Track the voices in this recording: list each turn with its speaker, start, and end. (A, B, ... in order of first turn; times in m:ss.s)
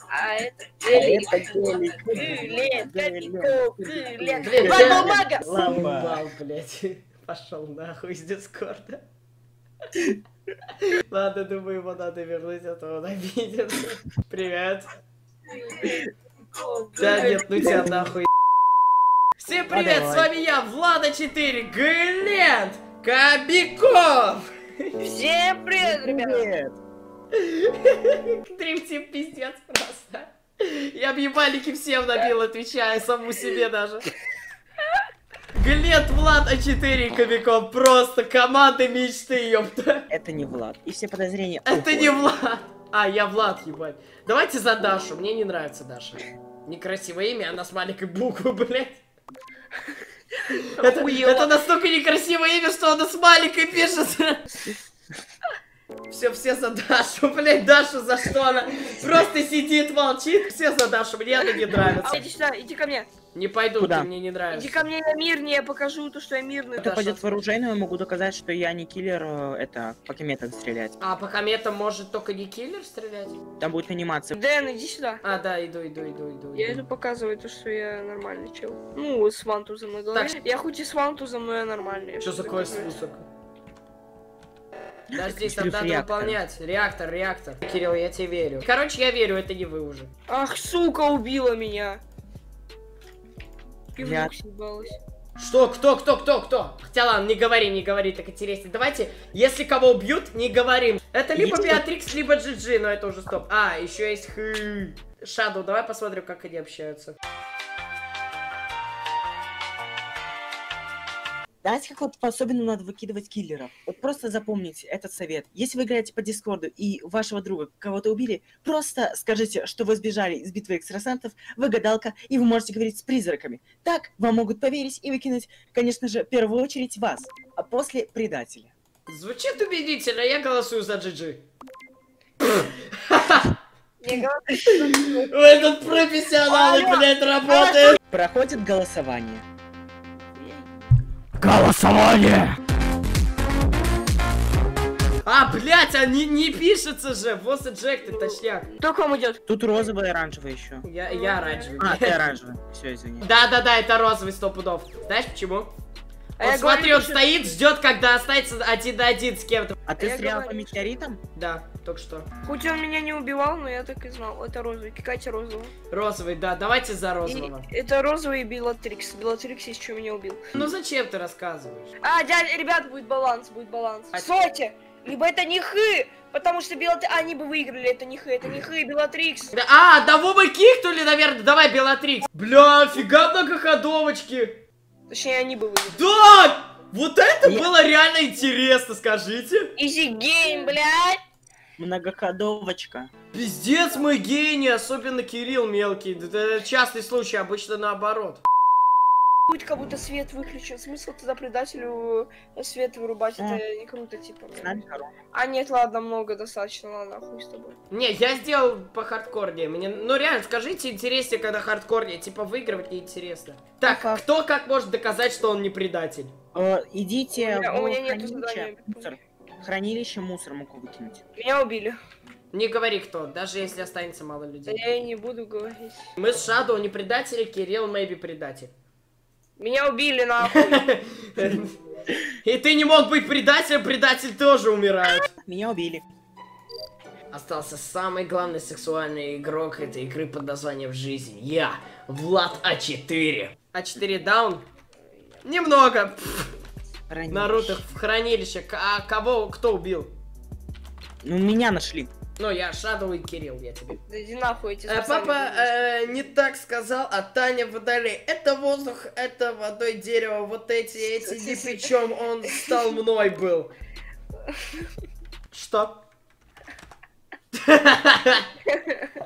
0:00.1-0:05.5 A
0:00.9-0:06.2 B
0:04.4-0:09.0 C
0:10.8-0:14.9 C
0:15.5-0:16.0 A
0:16.5-0:17.8 A
0:17.0-0:18.3 C
0:19.4-0:25.0 C
0:19.7-0:20.3 B
0:25.0-0:26.5 A
0:25.8-0:26.8 B
0:27.3-0:34.1 C
0:35.6-0:40.0 C
0:40.1-0:42.2 B
0:41.6-0:49.0 C
0:50.4-0:51.5 A
0:50.8-0:54.4 C
0:54.5-0:54.8 A
0:56.1-1:02.2 C
1:01.6-1:03.1 A
1:03.3-1:04.8 C
1:03.8-1:04.1 B
1:04.5-1:07.4 A
1:06.8-1:11.0 B
1:11.0-1:13.4 C
1:13.6-1:14.4 B
1:14.3-1:15.2 A
1:15.2-1:16.8 C
1:16.5-1:22.9 A
1:22.2-1:23.2 C
1:25.1-1:26.4 B
1:25.1-1:30.1 C
1:30.3-1:32.0 A
1:33.9-1:35.0 A
1:34.0-1:34.3 B
1:35.4-1:47.2 C
1:41.3-1:41.8 B
1:51.6-2:08.7 B
2:09.1-2:11.4 C
2:12.4-2:13.5 C
2:14.0-2:15.3 A
2:14.6-2:18.0 C
2:16.4-2:17.8 A
2:18.1-2:19.4 B
2:20.4-2:20.7 A
2:21.4-2:22.6 C
2:25.2-2:28.7 C
2:28.7-2:29.4 A
2:29.5-2:30.8 B
2:30.8-2:32.2 C
2:31.1-2:31.7 A
2:31.8-2:33.3 B
2:33.2-2:35.7 C
2:36.4-2:37.2 A
2:36.4-2:39.8 C
2:39.9-2:41.2 B
2:40.0-2:41.0 A
2:41.3-2:42.3 C
2:42.4-2:45.7 A
2:45.9-2:47.7 C
2:47.2-2:50.4 A
2:50.6-2:51.9 C
2:52.0-2:59.5 A
2:59.5-3:04.6 C
3:05.1-3:06.0 A
3:05.9-3:09.7 C
3:07.4-3:07.7 B
3:09.8-3:11.2 A
3:11.8-3:13.1 B
3:13.3-3:18.4 C
3:19.5-3:24.8 A
3:23.4-3:23.6 B
3:24.5-3:25.1 B
3:25.3-3:27.8 A
3:27.9-3:36.3 C
3:33.8-3:34.2 B
3:36.5-3:41.2 B
3:37.4-3:39.2 A
3:41.4-3:42.0 A
3:42.5-3:44.8 C
3:44.6-3:46.1 A
3:46.2-3:48.7 C
3:49.6-3:50.8 A
3:50.4-3:51.7 C
3:52.4-3:55.3 C
3:55.4-3:56.0 B
3:57.3-4:04.6 C
4:05.4-4:06.6 C
4:07.1-4:07.8 B
4:07.3-4:10.1 C
4:11.2-4:12.1 B
4:12.4-4:14.0 C
4:14.0-4:16.2 A
4:14.9-4:23.7 C
4:21.0-4:21.9 A
4:25.5-4:26.0 C
4:27.5-4:28.5 C
4:28.6-4:29.1 A